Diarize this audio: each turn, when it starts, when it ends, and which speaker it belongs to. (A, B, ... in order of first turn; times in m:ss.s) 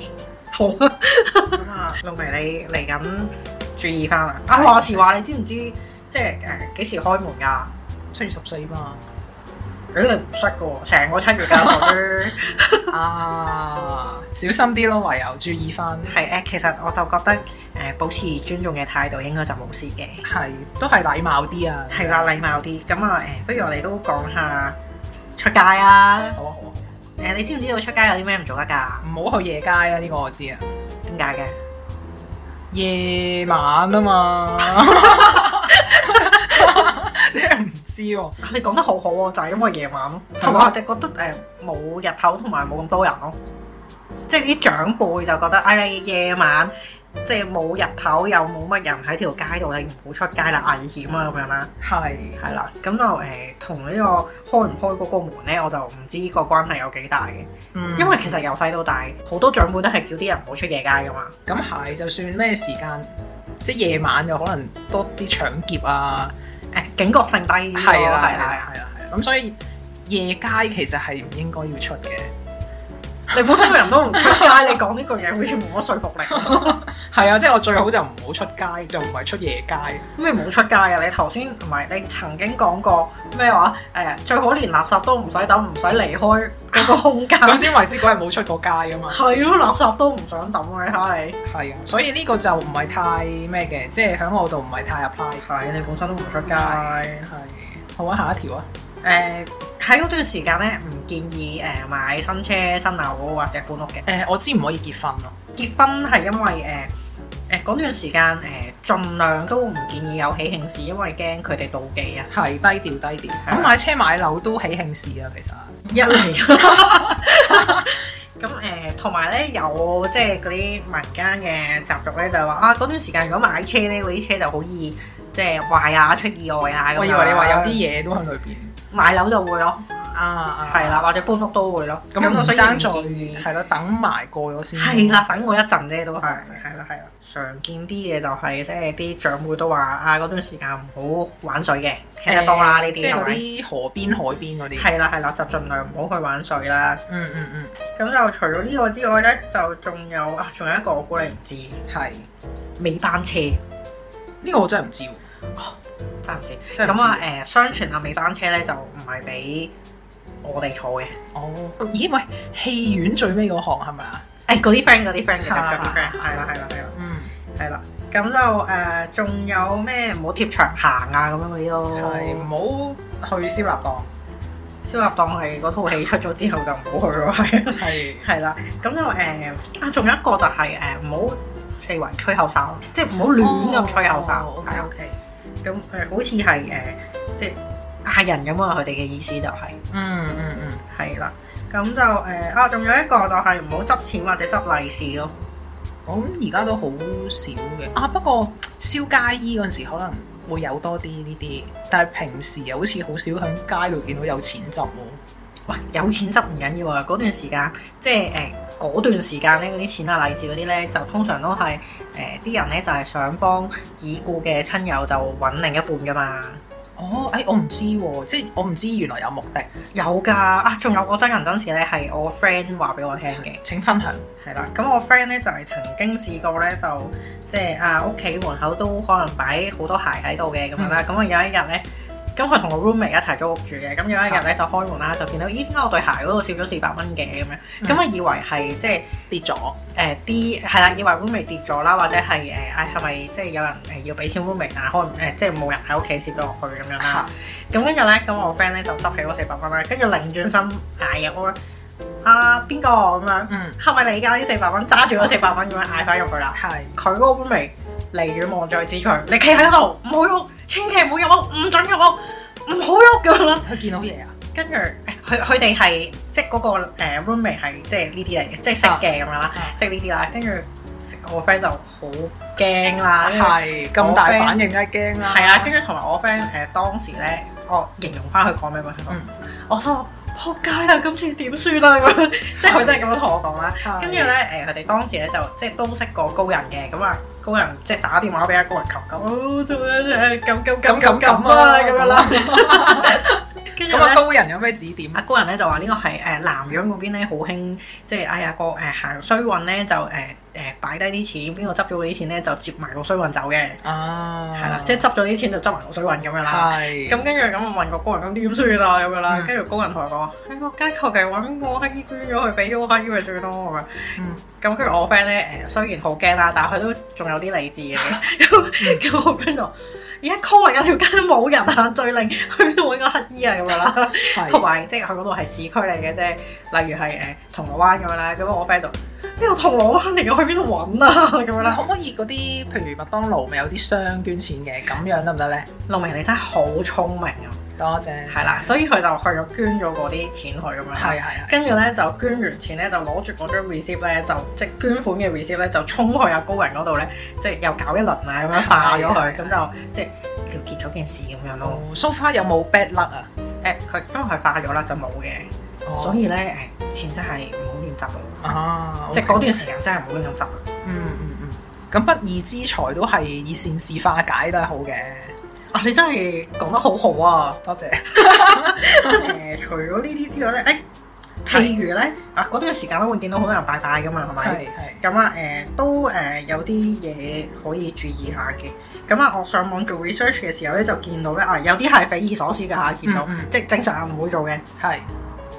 0:00.5-0:07.7 A
0:04.5-0:05.0 B
0:08.1-0:09.0 B
0:09.9-0:12.9 A
0:11.5-0:11.9 B
0:12.9-0:16.2 B
0:16.1-0:20.2 A
0:20.2-0:22.4 B
0:21.9-0:24.8 A
0:25.4-0:26.4 A
0:26.4-0:27.0 B
0:27.2-0:29.0 A
0:29.0-0:30.7 B
0:31.0-0:31.6 A
0:32.7-0:38.4 B
0:38.4-0:43.4 A
0:40.4-0:40.7 B
0:44.3-0:46.7 A
0:47.2-0:51.7 A
0:51.8-0:52.4 B
0:52.4-1:01.4 A
0:57.7-0:58.4 B
1:01.4-1:06.3 B
1:06.7-1:08.7 A
1:07.7-1:12.3 B
1:13.3-1:16.8 A
1:13.3-1:14.7 B
1:16.3-1:20.0 B
1:20.2-1:27.8 A
1:26.7-1:29.2 B
1:29.1-1:31.4 A
1:31.4-1:35.4 B
1:35.4-1:37.3 A
1:36.5-1:38.7 B
1:39.0-1:44.1 A
1:44.0-1:45.4 B
1:45.5-1:46.9 A
1:47.5-1:52.3 A
1:52.3-1:57.8 B
1:53.4-1:53.7 A
1:55.9-2:07.8 A
2:06.9-2:08.8 B
2:08.9-2:09.9 A
2:10.1-2:11.1 B
2:10.6-2:13.5 A
2:12.1-2:15.5 B
2:14.8-2:23.4 A
2:22.3-2:24.9 B
2:24.8-2:27.0 A
2:27.1-2:27.8 B
2:28.0-2:31.8 A
2:31.9-2:32.3 B
2:32.8-2:33.6 A
2:34.4-2:35.2 B
2:36.2-2:39.7 A
2:36.7-2:37.2 B
2:40.4-2:41.2 A
2:41.3-2:44.2 B
2:44.5-2:46.9 A
2:45.4-2:46.3 B
2:46.9-2:47.3 B
2:47.6-2:52.5 A
2:52.0-2:54.1 B
2:54.8-3:04.9 A
2:57.7-2:58.3 B
3:03.3-3:05.2 B
3:05.6-3:09.8 A
3:09.9-3:10.8 B
3:10.9-3:15.3 A
3:16.0-3:25.2 B
3:25.7-3:36.6 A
3:37.0-3:39.7 B
3:39.9-3:43.6 A
3:43.5-3:44.3 B
3:44.4-3:51.8 A
3:50.8-3:51.0 B
3:52.4-3:59.1 A
3:59.3-3:59.8 B
3:59.9-4:11.6 A
4:07.0-4:07.3 B
4:12.2-4:23.7 A
4:13.5-4:13.8 B
4:16.6-4:17.0 B
4:23.6-4:24.3 B
4:24.5-4:34.6 A
4:28.8-4:29.8 B
4:33.2-4:35.7 B
4:35.2-4:54.3 A
4:42.6-4:43.1 B
4:43.8-4:44.4 B
4:50.8-4:55.2 B
4:55.1-5:03.8 A
5:03.8-5:05.0 B
5:04.6-5:31.8 A
5:06.4-5:07.2 B
5:14.2-5:14.4 B
5:18.8-5:19.0 B
5:24.1-5:24.6 B
5:31.6-5:35.7 B
5:35.9-5:37.6 A
5:37.8-5:38.7 B
5:38.3-5:51.8 A
5:40.9-5:41.6 B
5:48.5-5:49.6 B
5:51.6-5:53.3 B
5:53.6-5:58.5 A
5:55.8-5:56.2 B
5:58.4-5:59.7 B
5:59.1-6:00.6 A
6:00.8-6:05.4 B
6:05.7-6:07.6 A
6:07.6-6:09.3 B
6:08.1-6:10.8 A
6:11.4-6:24.6 A
6:11.5-6:11.7 B
6:14.4-6:15.0 B
6:23.0-6:23.5 B
6:24.8-6:25.1 B